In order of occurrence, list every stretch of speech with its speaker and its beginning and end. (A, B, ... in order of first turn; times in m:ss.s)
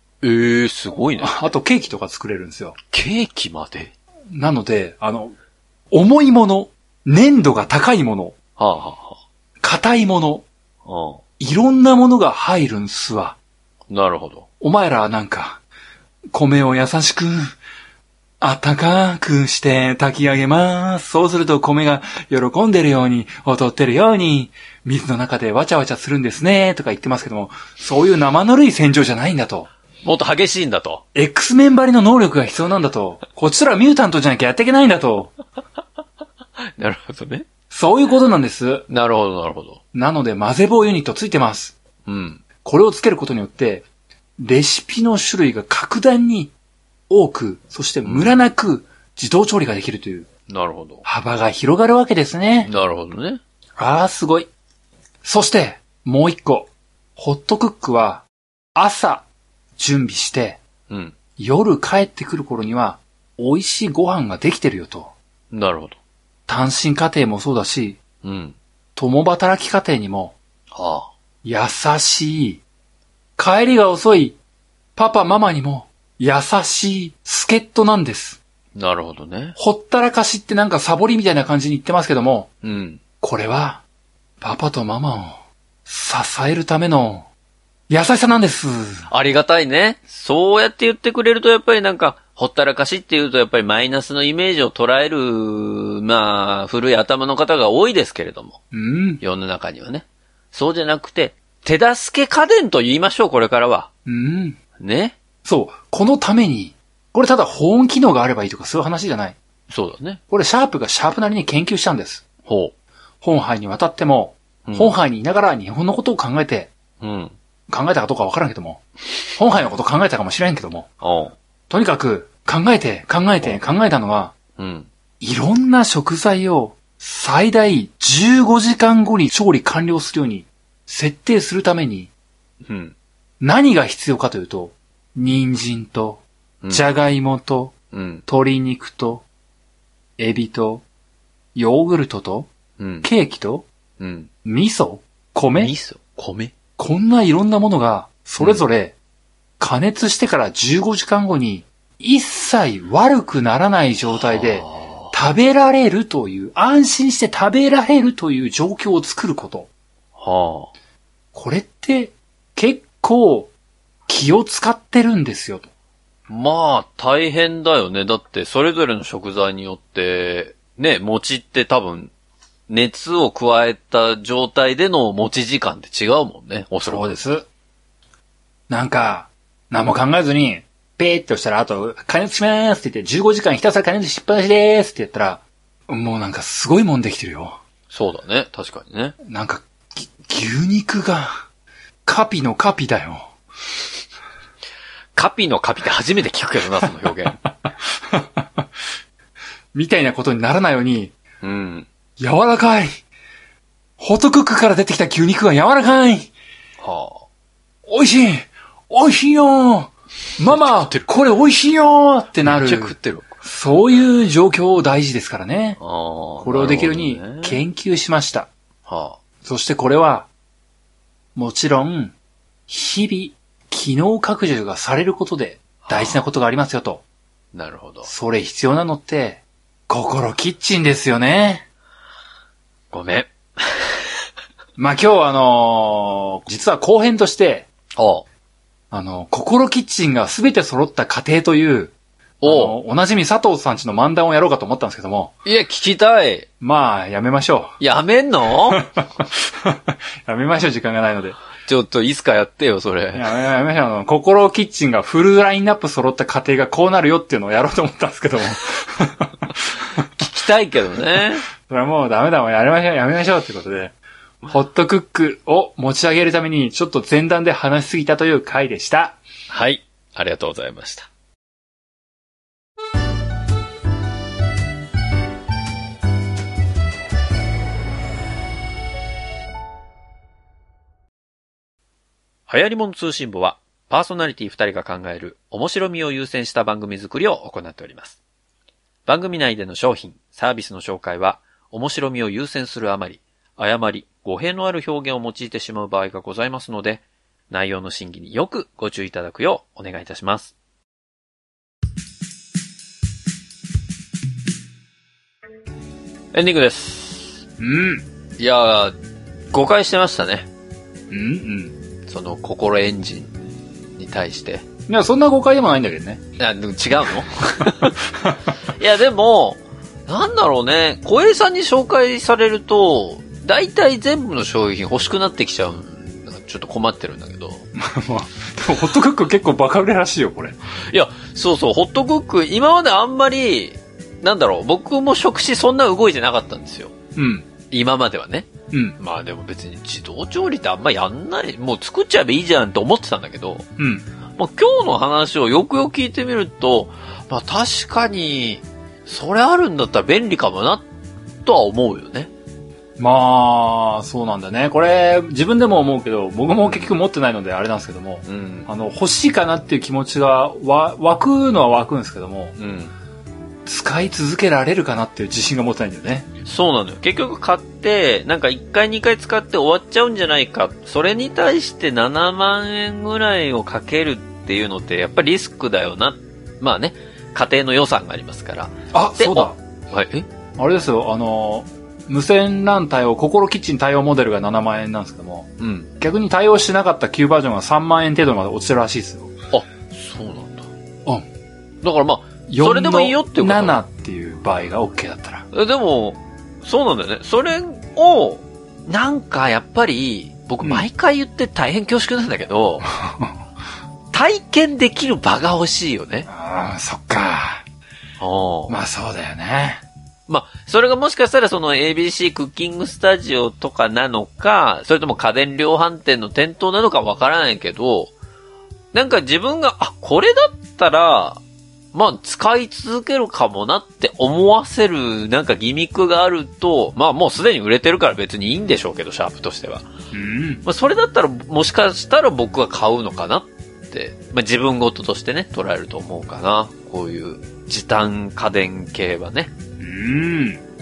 0:00.2-0:01.5 A
0:01.2-0:02.8 B
0:02.9-0:03.9 A
0:04.3-0:05.3 B
0:05.9-0:08.4 B
0:08.6-0:09.2 A
0:09.6-0:10.4 B
0:10.8-0:11.2 A
0:11.4-0:13.4 B
0:13.9-0:14.5 A
0:14.6-0:15.6 B
0:16.3-0:17.6 B
0:18.4-0:29.7 B
0:30.0-0:31.0 A
0:31.2-0:35.3 B
0:36.8-0:37.5 A
0:37.7-0:38.9 B
0:38.9-0:39.8 A
0:39.9-0:41.8 B
0:42.1-0:42.4 A
0:42.6-0:43.9 B
0:44.4-0:46.5 B
0:47.1-0:50.3 B
0:48.0-0:48.4 A
0:50.5-0:51.0 A
0:51.0-0:52.7 B
0:52.6-0:53.4 A
0:53.8-0:54.5 B
0:55.2-1:00.6 B
1:00.9-1:01.2 A
1:01.4-1:05.1 B
1:05.5-1:06.0 A
1:06.5-1:08.0 B
1:08.2-1:08.6 A
1:09.0-1:10.4 B
1:10.7-1:11.1 A
1:11.4-1:12.6 B
1:13.4-1:14.4 B
1:15.0-1:18.4 B
1:18.8-1:19.6 A
1:19.6-1:22.5 B
1:22.6-1:23.0 A
1:23.2-1:23.8 B
1:24.4-1:27.3 B
1:27.9-1:29.1 B
1:29.1-1:38.6 A
1:38.7-1:39.2 B
1:39.2-1:43.9 A
1:44.1-1:44.6 B
1:44.8-1:45.2 A
1:45.4-1:49.4 B
1:49.7-1:50.2 A
1:50.3-1:52.2 B
1:52.5-1:52.7 A
1:53.2-1:56.7 B
1:54.7-1:55.0 A
1:57.0-1:57.4 A
1:57.7-1:58.8 B
1:59.4-2:00.9 B
2:01.0-2:01.4 A
2:01.7-2:04.3 B
2:04.6-2:04.9 A
2:05.2-2:12.1 B
2:12.6-2:13.0 A
2:13.4-2:17.7 B
2:17.9-2:18.2 A
2:18.3-2:19.2 B
2:20.2-2:20.8 B
2:21.6-2:22.5 B
2:22.8-2:23.1 A
2:23.0-2:23.7 B
2:24.0-2:24.3 A
2:24.4-2:25.7 B
2:25.6-2:26.5 A
2:26.8-2:29.0 B
2:29.6-2:39.7 B
2:34.1-2:35.1 A
2:40.2-2:40.7 A
2:41.3-2:43.5 B
2:44.1-2:45.7 B
2:46.3-2:52.1 A
2:52.7-2:57.2 A
2:56.9-2:57.5 B
2:58.7-3:07.6 B
3:07.9-3:09.2 A
3:09.2-3:11.5 B
3:12.0-3:13.3 B
3:15.2-3:17.4 A
3:18.0-3:18.7 B
3:19.7-3:21.1 B
3:21.4-3:21.9 A
3:22.2-3:23.0 B
3:24.0-3:26.3 B
3:26.8-3:27.2 A
3:27.9-3:35.8 B
3:30.4-3:31.1 A
3:32.4-3:33.4 A
3:35.8-3:37.6 A
3:36.4-3:38.5 B
3:38.9-3:39.2 A
3:39.4-3:40.3 B
3:41.4-3:42.2 B
3:42.7-3:47.0 B
3:45.8-3:46.2 A
3:47.5-3:48.1 A
3:48.1-3:51.6 B
3:52.9-3:54.0 A
3:54.8-3:57.7 B
3:58.0-3:58.2 A
3:58.9-4:05.3 B
4:02.4-4:02.8 A
4:05.5-4:06.5 A
4:06.6-4:07.8 B
4:07.8-4:08.9 A
4:08.7-4:11.4 B
4:11.7-4:13.3 A
4:13.2-4:19.8 B
4:20.0-4:21.5 A
4:21.6-4:24.0 B
4:24.5-4:29.2 B
4:29.5-4:31.1 A
4:42.5-4:48.2 A
4:49.1-5:00.5 A
5:06.3-5:07.4 A
5:07.6-5:08.0 B
5:08.4-5:09.0 A
5:09.5-5:10.5 A
5:11.1-5:11.7 B
5:12.1-5:13.4 A
5:14.0-5:14.7 A
5:14.9-5:16.2 B
5:16.4-5:18.0 A
5:18.7-5:27.6 A
5:27.8-5:30.6 B
5:30.9-5:36.9 A
5:37.2-5:37.5 B
5:37.7-5:43.7 A
5:38.7-5:39.0 B
5:43.8-5:44.0 B
5:44.4-5:50.9 A
5:51.4-5:52.3 A
5:53.0-6:02.6 B
5:56.6-5:56.9 A
5:58.3-5:58.7 A
6:02.6-6:02.9 A
6:03.6-6:06.3 B
6:06.4-6:20.3 A
6:18.9-6:19.6 B
6:20.6-6:29.4 B
6:25.6-6:25.9 A
6:29.5-6:30.7 A
6:31.8-6:33.8 A
6:32.5-6:35.5 B
6:35.5-6:42.9 A
6:42.9-6:43.3 B
6:44.1-6:46.3 A
6:46.3-6:47.6 B
6:48.2-6:48.8 A
6:48.7-6:49.8 B
6:50.3-6:58.1 A
6:58.9-7:01.4 A
7:01.9-7:09.9 A
7:10.1-7:10.6 B
7:10.6-7:19.5 A
7:19.8-7:20.6 B